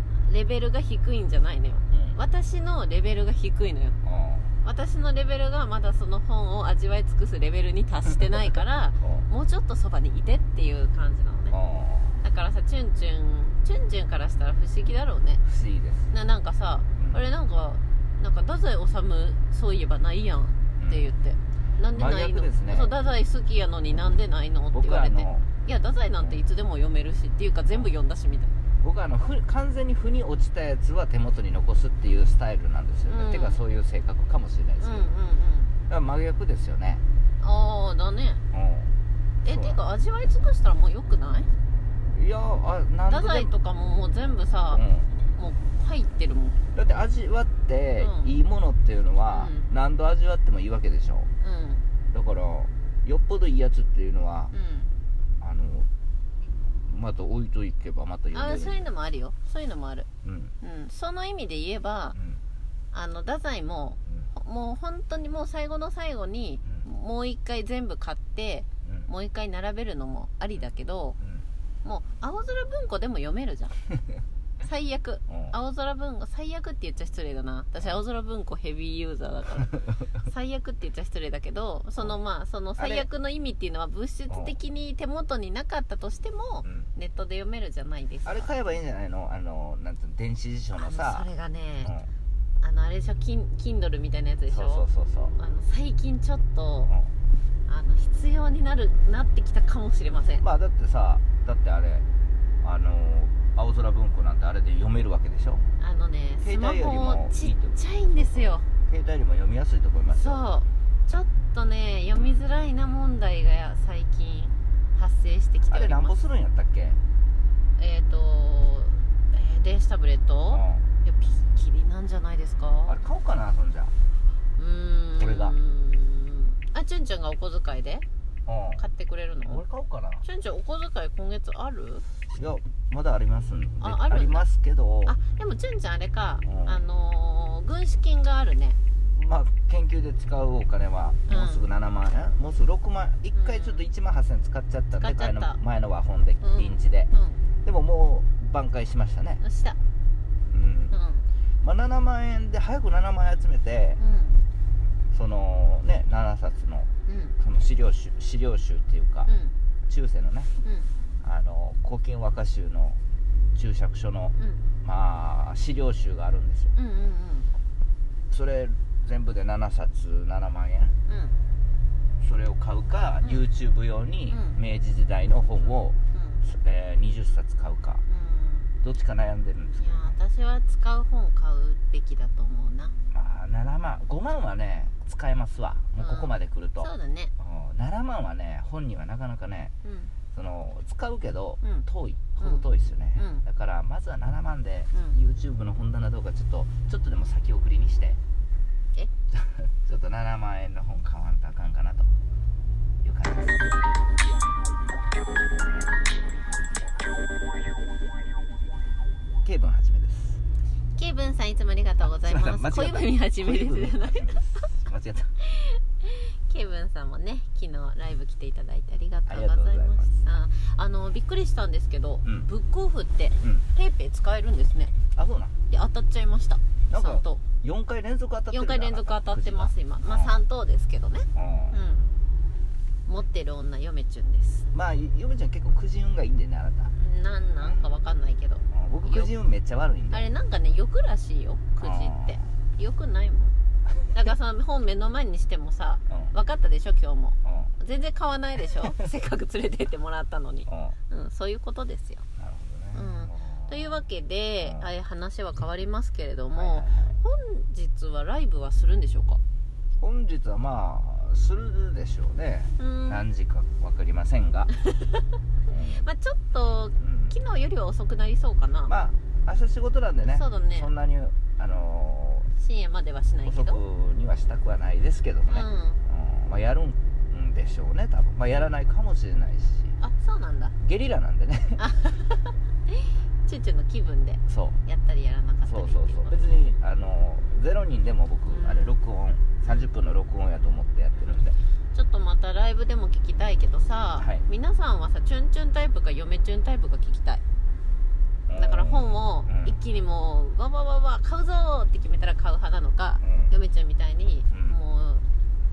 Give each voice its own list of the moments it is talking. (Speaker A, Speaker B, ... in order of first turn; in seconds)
Speaker A: 0.2-4.0, 4.6-11.6, 12.2-15.4, 16.1-28.5, 33.1-33.6, 34.8-35.7, 37.4-38.4, 39.4-41.5, 43.1-46.6, 48.0-48.3, 49.3-49.7, 51.4-51.8, 54.5-54.9, 58.3-60.1, 60.6-62.1, 62.9-71.2, 71.8-73.8, 74.6-88.5, 90.8-91.9, 92.6-96.9, 97.7-100.4, 105.8-108.7, 110.1-116.2, 117.8-123.0, 124.6-128.0, 128.8-129.6, 130.2-132.1, 133.8-134.4, 135.1-138.8, 141.3-141.6, 143.3-143.8, 144.9-145.6, 146.4-147.4, 149.4-149.8, 150.9-151.2, 154.0-154.4, 157.1-157.3, 159.2-159.5, 160.6-160.9, 164.3-164.7, 166.7-167.5, 171.1-171.3, 174.3-174.6, 176.1-176.4, 178.1-178.7, 179.8-182.9, 186.0-187.3, 189.8-190.1, 193.2-193.4, 210.9-214.7, 215.4-224.9, 225.7-227.4, 228.5-232.1, 233.1-234.7, 236.9-239.3, 240.1-243.5, 244.1-252.2, 252.9-259.4, 262.8-263.2, 264.9-265.2, 265.8-268.9, 270.2-270.9, 272.6-273.8, 275.5-276.0, 280.0-280.7, 281.8-286.4, 288.5-288.9, 291.9-297.4, 298.5-305.2
Speaker B: 1.9-2.2, 4.0-4.5, 9.0-9.3, 11.5-12.2, 15.4-16.1, 20.8-21.1, 21.9-22.9, 24.7-25.5, 28.8-35.1, 35.9-37.0, 38.5-38.9, 39.4-39.8, 42.1-43.5, 44.7-45.1, 46.7-51.3, 52.1-54.5, 55.4-55.9, 56.9-58.9, 60.2-60.5, 62.1-62.4, 71.2-71.5, 75.3-75.5, 82.8-83.0, 84.3-84.5, 86.6-86.9, 88.2-91.3, 91.8-92.1, 94.5-95.3, 100.4-102.0, 102.6-105.6, 106.4-110.4, 115.6-117.0, 120.5-120.9, 122.9-123.9, 125.2-125.6, 128.4-128.8, 129.5-130.2, 132.3-135.2, 136.4-136.8, 139.1-147.1, 147.6-149.4, 150.5-150.9, 151.6-154.0, 155.1-159.3, 159.9-160.5, 161.2-163.0, 163.5-166.7, 168.3-170.9, 172.2-178.0, 178.8-180.2, 183.1-189.7, 190.3-198.2, 199.3-202.1, 203.0-203.9, 209.4-210.4, 212.0-215.3, 219.3-220.2, 222.2-222.5, 223.4-223.7, 225.1-225.5, 226.9-230.4, 231.3-231.8, 234.7-236.9, 238.7-240.3, 241.8-242.4, 247.4-247.7, 250.7-250.9, 252.4-254.0, 254.6-254.9, 256.5-257.2, 260.0-264.7, 265.7-266.1, 267.0-267.3, 268.9-272.5, 273.4-280.0, 280.8-281.8, 284.5-284.8, 285.6-291.6, 294.2-294.4, 298.5-299.8, 303.2-303.5, 304.5-304.8